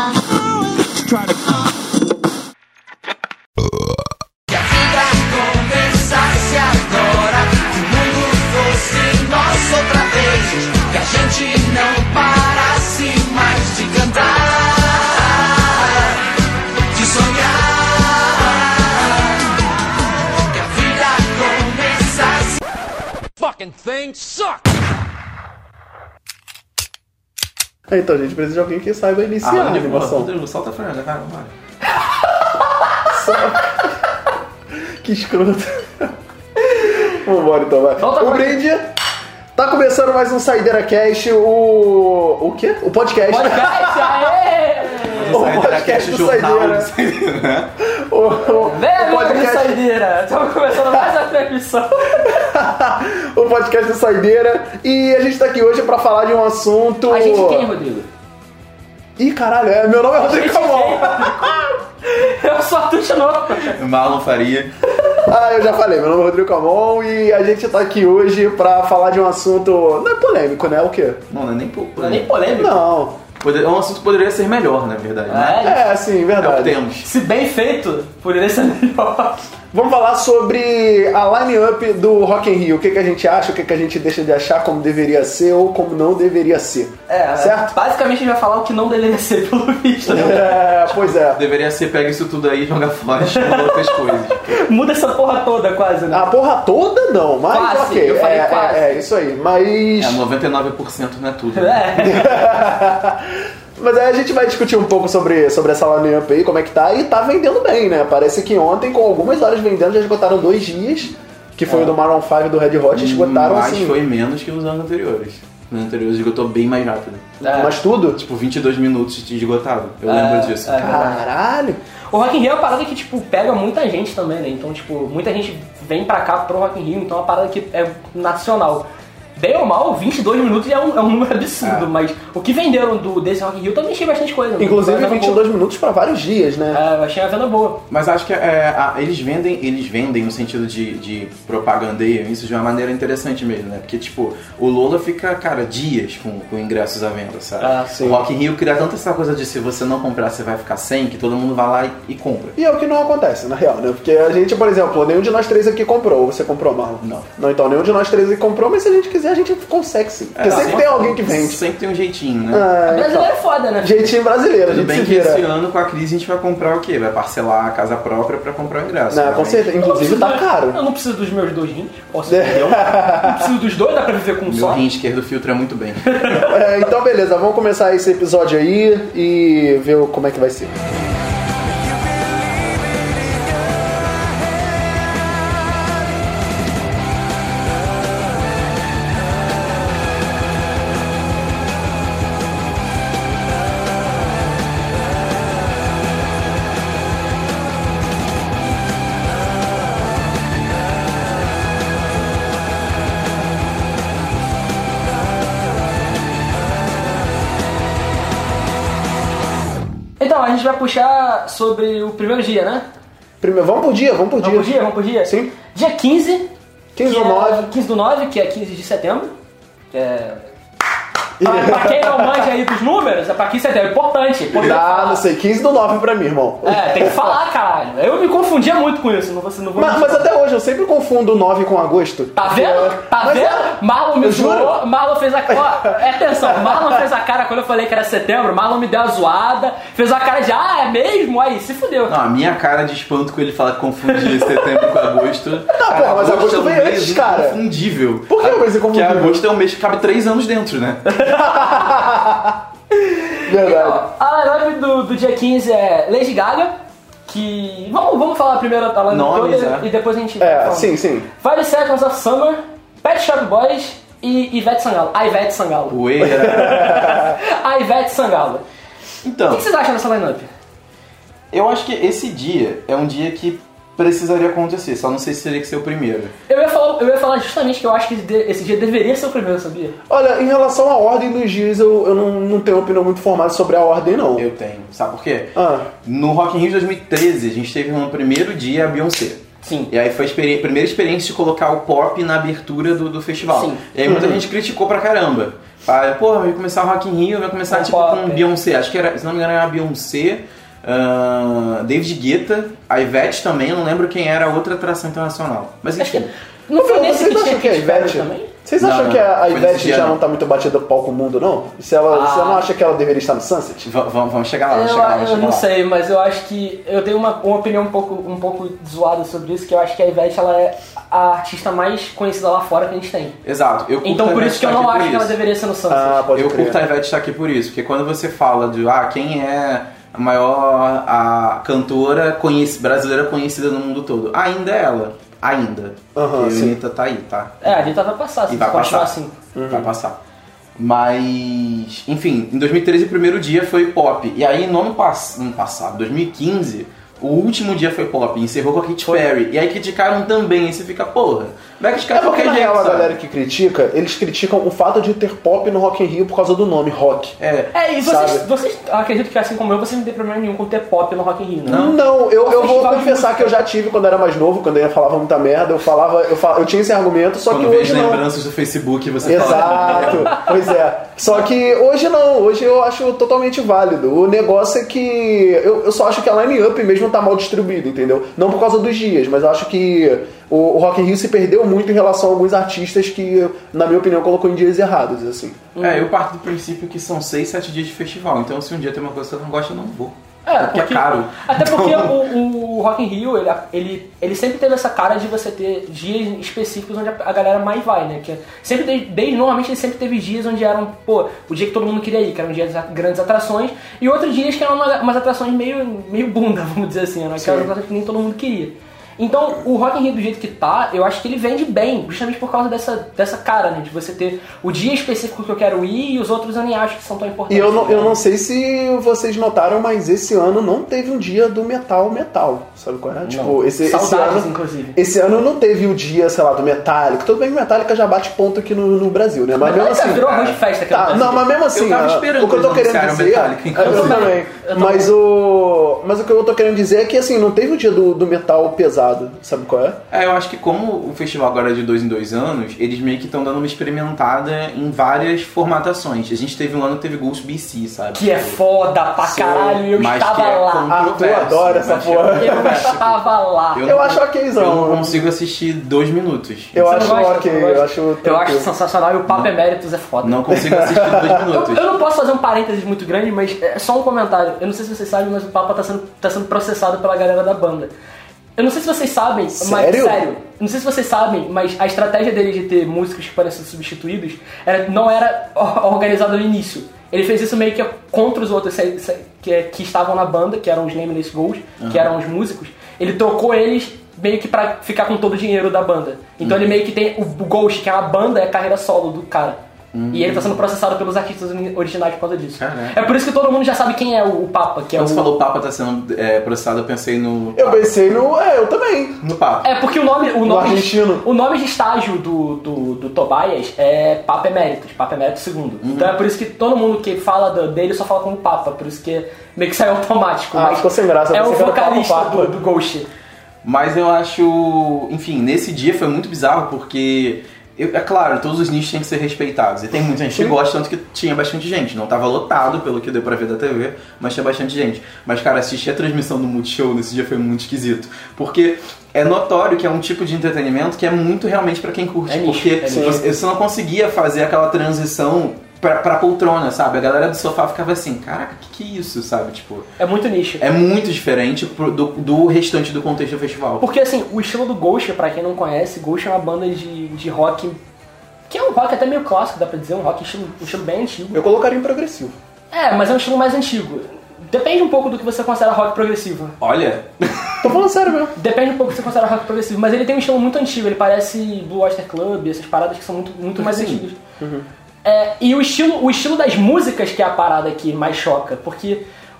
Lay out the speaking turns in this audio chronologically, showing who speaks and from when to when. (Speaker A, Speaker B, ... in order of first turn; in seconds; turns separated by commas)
Speaker A: 0.7-1.2, Speaker A: 4.6-14.8, Speaker B: 7.7-8.5, Speaker B: 11.1-13.5, Speaker A: 17.1-18.5, Speaker B: 17.1-17.4, Speaker A: 20.6-21.9, Speaker A: 23.4-24.7, Speaker C: 27.9-30.3, Speaker B: 29.4-31.5, Speaker C: 33.1-33.9, Speaker C: 34.8-36.1, Speaker C: 36.7-38.9, Speaker D: 38.0-38.6, Speaker C: 39.5-44.3, Speaker D: 43.3-45.5, Speaker B: 45.1-47.7, Speaker C: 45.1-46.9, Speaker C: 47.8-49.8, Speaker D: 48.5-52.5, Speaker C: 52.2-57.7, Speaker D: 57.1-58.1, Speaker C: 59.2-61.7, Speaker D: 60.1-63.8, Speaker B: 63.7-64.7, Speaker C: 65.1-71.2, Speaker B: 71.3-72.7, Speaker D: 72.0-72.8, Speaker C: 72.5-73.2, Speaker B: 73.4-75.8, Speaker D: 75.3-75.8, Speaker C: 75.6-76.8, Speaker B: 76.4-77.1, Speaker D: 77.0-79.5, Speaker C: 79.7-87.7, Speaker D: 87.1-90.6, Speaker C: 90.1-91.4, Speaker B: 90.1-94.6, Speaker D: 93.3-96.3, Speaker C: 96.1-100.2, Speaker D: 97.5-99.0, Speaker B: 100.0-102.4, Speaker D: 101.5-102.4, Speaker C: 102.0-114.0, Speaker B: 112.9-117.4, Speaker D: 117.4-117.7, Speaker C: 117.4-118.2, Speaker B: 118.2-121.0, Speaker D: 120.0-121.2, Speaker C: 120.8-121.8, Speaker D: 122.1-135.4, Speaker B: 131.6-131.9, Speaker C: 134.6-136.8, Speaker D: 136.7-137.8, Speaker B: 137.9-152.6, Speaker D: 147.6-147.9, Speaker C: 147.9-148.2, Speaker C: 152.6-161.6, Speaker B: 157.0-157.3, Speaker B: 160.3-162.7, Speaker D: 160.4-161.0, Speaker C: 162.5-163.3, Speaker D: 162.8-164.1, Speaker C: 163.8-165.5, Speaker B: 164.7-169.7, Speaker C: 169.1-170.8, Speaker D: 169.8-174.8, Speaker C: 172.3-173.5, Speaker B: 174.4-176.5, Speaker D: 176.1-176.5, Speaker C: 176.4-180.7, Speaker D: 210.2-212.8, Speaker C: 213.4-215.5, Speaker D: 214.4-216.5, Speaker C: 216.9-217.7, Speaker D: 217.0-219.3, Speaker D: 219.9-220.5, Speaker C: 221.4-222.5, Speaker D: 221.4-225.2, Speaker C: 224.5-227.4, Speaker D: 226.6-230.3, Speaker C: 229.8-234.8, Speaker D: 232.3-242.1, Speaker C: 236.5-236.8, Speaker B: 242.1-251.2, Speaker D: 244.2-244.9, Speaker C: 245.7-247.6, Speaker C: 248.3-249.4, Speaker D: 251.1-252.0, Speaker C: 251.3-252.5, Speaker D: 252.9-256.7, Speaker C: 253.4-254.0, Speaker D: 257.3-268.6, Speaker B: 259.1-259.9, Speaker C: 260.4-261.3, Speaker B: 265.9-267.1, Speaker C: 266.4-267.3, Speaker B: 269.2-269.6, Speaker D: 269.5-270.5, Speaker B: 271.5-276.3, Speaker D: 276.5-279.9, Speaker C: 280.1-284.5, Speaker B: 284.4-306.3, Speaker C: 285.5-285.9, Speaker D: 289.6-289.9, Speaker D: 293.5-293.8, Speaker C: 294.0-294.4, Speaker D: 297.7-298.4, Speaker D: 306.0-308.5, Speaker C: 306.8-313.9, Speaker B: 308.8-310.2, Speaker D: 312.1-312.7, Speaker B: 313.8-315.7, Speaker D: 314.7-323.4, Speaker B: 323.4-325.4, Speaker D: 324.0-326.3, Speaker C: 325.9-326.8, Speaker B: 326.3-337.9, Speaker C: 336.1-336.8, Speaker D: 337.6-339.3, Speaker B: 338.5-339.2, Speaker C: 339.5-339.9, Speaker B: 339.7-340.2, Speaker B: 340.8-353.1, Speaker C: 352.1-357.4, Speaker B: 357.4-357.7, Speaker D: 357.7-363.6, Speaker C: 358.0-358.5, Speaker B: 361.7-361.9, Speaker C: 361.7-368.2, Speaker B: 367.5-370.4, Speaker C: 369.2-385.6, Speaker D: 385.7-386.1, Speaker B: 385.8-392.1, Speaker D: 390.4-418.2, Speaker C: 407.4-407.7, Speaker C: 417.5-440.0, Speaker D: 423.2-425.0, Speaker D: 429.6-431.5, Speaker B: 430.2-430.6, Speaker B: 431.7-434.4, Speaker D: 433.8-435.1, Speaker B: 440.1-448.6, Speaker D: 448.1-450.9, Speaker C: 449.2-449.9, Speaker B: 449.9-453.2, Speaker C: 450.9-452.9, Speaker D: 452.4-453.9, Speaker B: 453.7-457.1, Speaker C: 453.8-455.3, Speaker C: 456.7-458.7, Speaker D: 456.9-460.8, Speaker B: 460.2-461.9, Speaker C: 460.5-461.4, Speaker D: 461.3-467.9, Speaker D: 468.6-489.6, Speaker C: 469.5-470.2, Speaker B: 481.8-482.1, Speaker B: 486.4-486.8, Speaker B: 489.9-490.6, Speaker D: 490.1-495.3, Speaker B: 492.6-493.0, Speaker B: 494.9-498.0, Speaker C: 497.5-499.2, Speaker B: 499.2-499.7, Speaker D: 499.6-513.1, Speaker C: 500.4-501.2, Speaker B: 505.8-506.2, Speaker C: 510.5-512.5, Speaker B: 513.6-539.9, Speaker D: 532.3-533.3, Speaker C: 532.9-533.2, Speaker D: 540.0-540.6, Speaker B: 540.6-543.8, Speaker D: 543.8-547.8, Speaker D: 548.5-551.4, Speaker C: 551.3-552.3, Speaker D: 552.7-556.6, Speaker B: 556.6-557.8, Speaker C: 557.6-558.3, Speaker D: 558.4-564.2, Speaker B: 563.5-564.0, Speaker C: 564.4-564.7, Speaker D: 565.0-569.0